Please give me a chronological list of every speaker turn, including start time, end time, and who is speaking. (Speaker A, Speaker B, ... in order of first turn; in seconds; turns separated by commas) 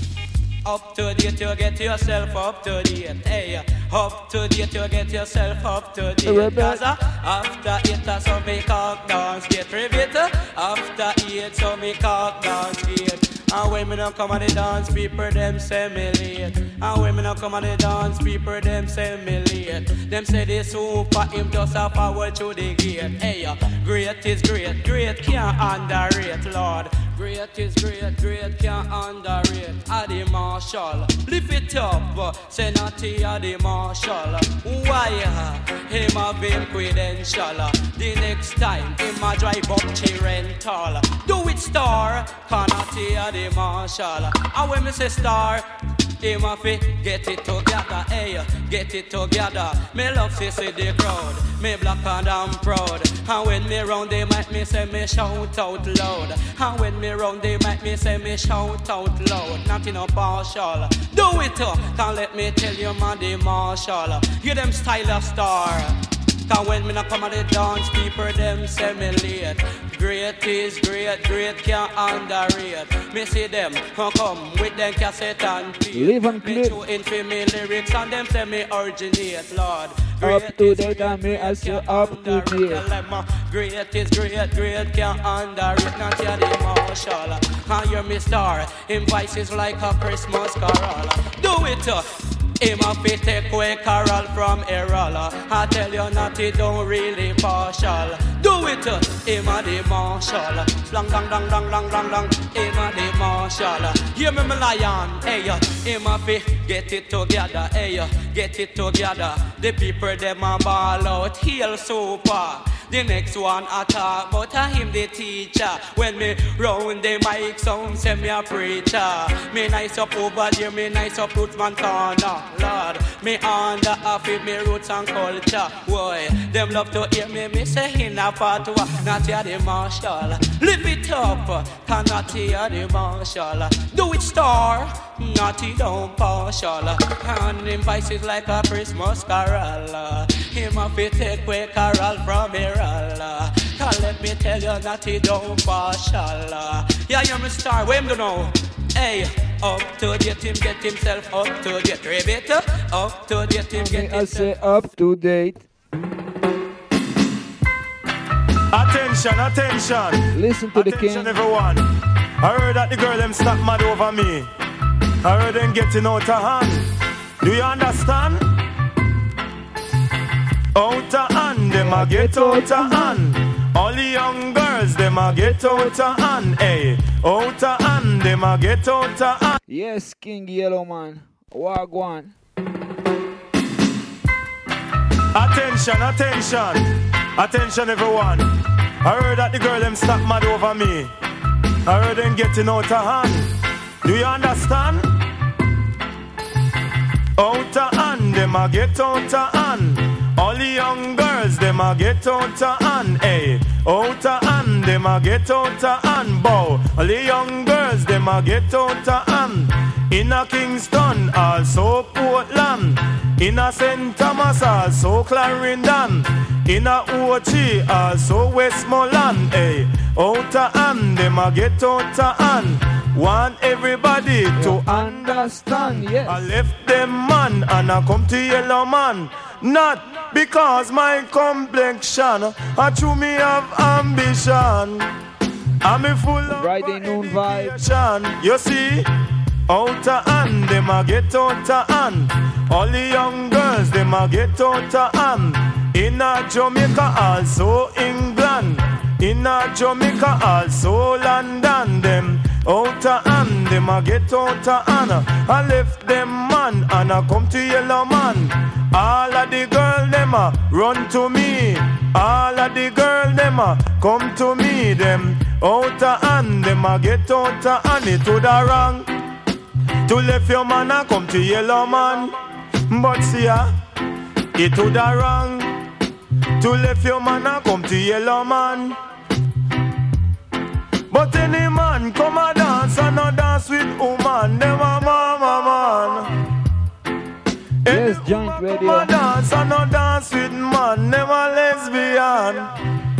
Speaker A: 0.7-45.7, Speaker B: 6.2-6.8, Speaker A: 46.2-154.5, Speaker B: 75.9-76.8, Speaker B: 80.2-82.8, Speaker B: 153.8-155.7, Speaker C: 158.7-161.9, Speaker B: 160.3-161.4, Speaker C: 162.4-164.5, Speaker C: 165.2-166.9, Speaker C: 167.4-168.4, Speaker C: 170.8-179.6, Speaker B: 171.7-173.2, Speaker B: 175.3-175.9, Speaker B: 179.7-182.3, Speaker C: 185.3-191.1, Speaker C: 191.9-193.5, Speaker C: 194.0-195.1, Speaker C: 197.4-235.1, Speaker B: 224.6-226.5, Speaker C: 235.8-239.1, Speaker B: 236.5-237.8, Speaker C: 239.7-269.1, Speaker C: 270.1-272.4, Speaker C: 272.9-273.7, Speaker C: 274.6-275.7, Speaker C: 276.6-279.0, Speaker C: 281.1-286.3, Speaker C: 287.9-292.7, Speaker B: 287.9-289.1